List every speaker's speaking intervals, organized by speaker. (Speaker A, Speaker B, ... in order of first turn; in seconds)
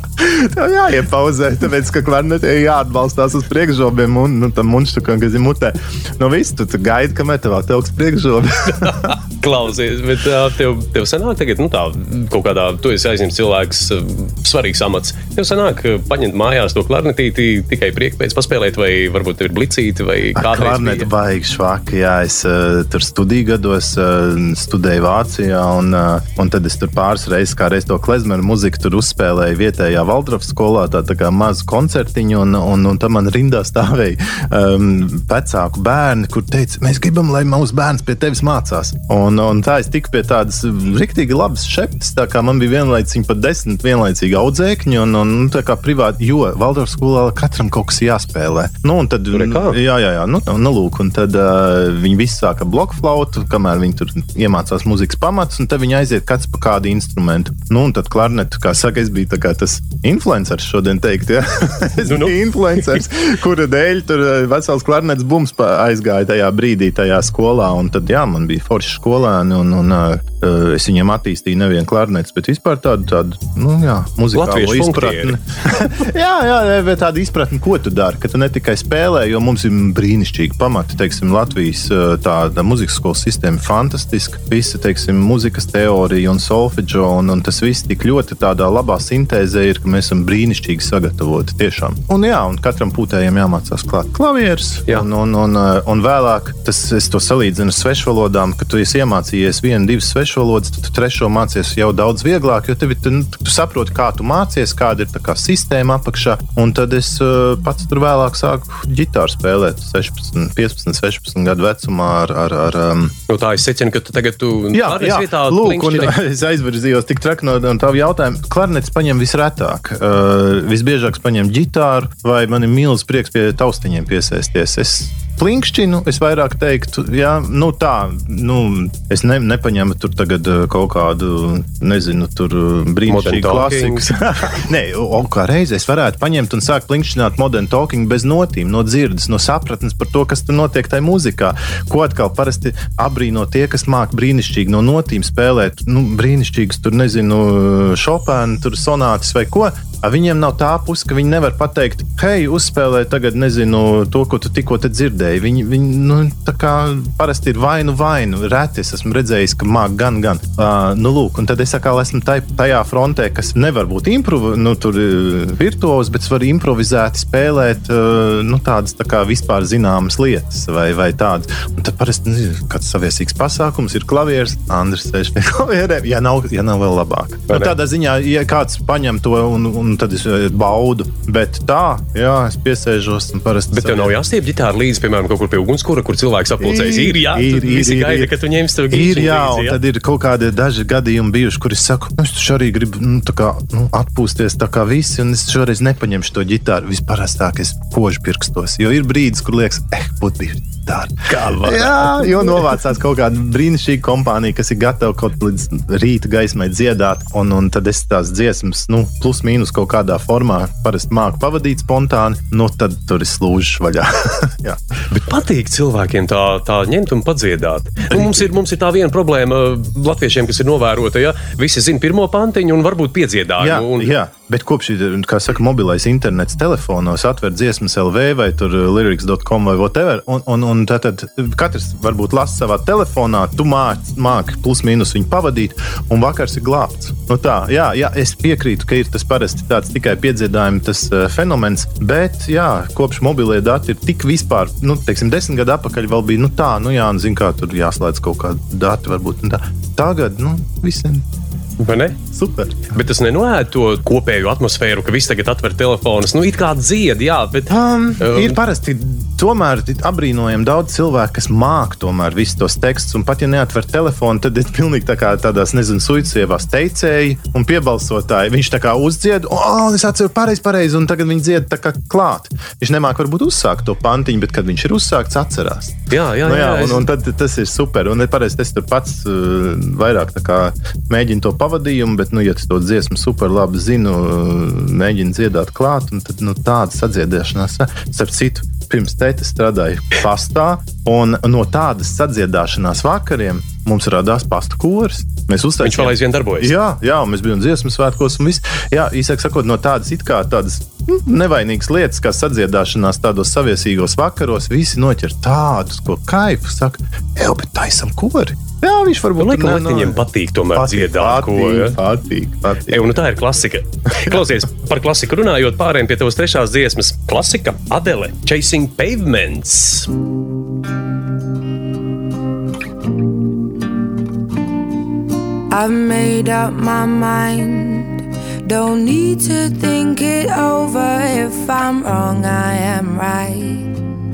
Speaker A: 0.2-9.2, 20.4-113.2, 114.7-184.2, 186.6-188.3, 188.9-214.8, 218.1-218.5, 223.6-251.3, 252.3-252.9, 257.7-313.0
Speaker B: 8.9-21.1, 49.3-49.8, 62.0-62.9, 74.3-75.4, 113.3-116.2, 133.1-134.1, 183.7-189.8, 201.3-202.8, 215.1-224.1, 251.8-252.2, 252.9-258.6, 276.1-277.1, 295.8-296.7, 309.4-312.0, 312.9-320.1
Speaker C: 325.7-333.9